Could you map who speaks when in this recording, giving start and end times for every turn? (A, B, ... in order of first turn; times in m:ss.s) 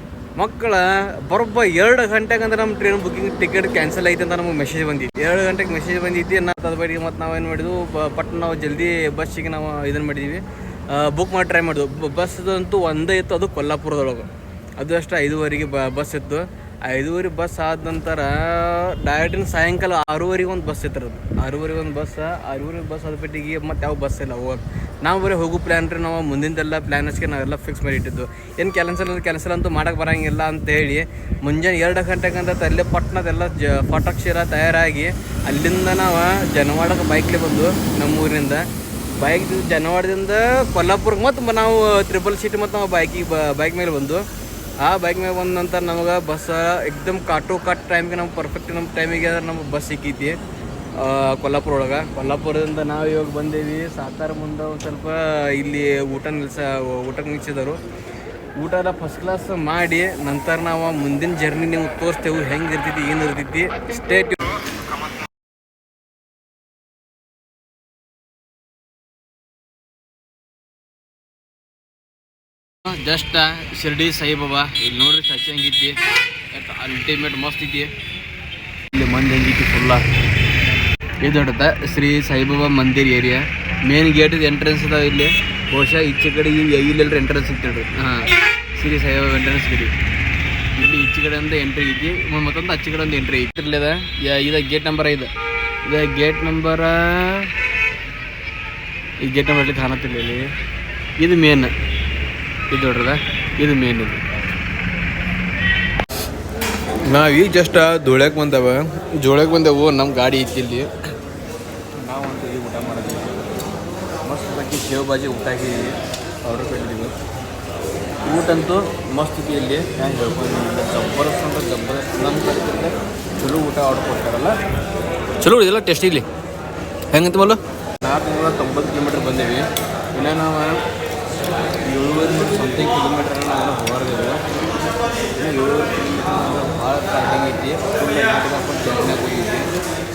0:00.4-0:38.6 A
0:39.2-0:44.2 A
0:44.8-0:50.4 A
0:51.0-0:57.8 A
0:58.6-1:04.6 A
1:12.8-1:16.0 A
1:16.5-1:17.9 A
1:18.9-1:20.0 A
1:21.2-1:29.9 A
1:30.7-1:35.3 A
1:35.8-1:37.5 A
1:39.2-1:40.5 A
1:41.2-1:41.7 A
1:42.7-1:44.2 A
1:47.0-1:50.9 A
1:52.0-1:53.5 A
1:54.2-1:57.1 A
1:58.2-2:04.6 A
2:05.4-2:06.3 A
2:07.1-2:10.8 A
2:11.8-2:14.4 A
2:15.3-2:19.7 A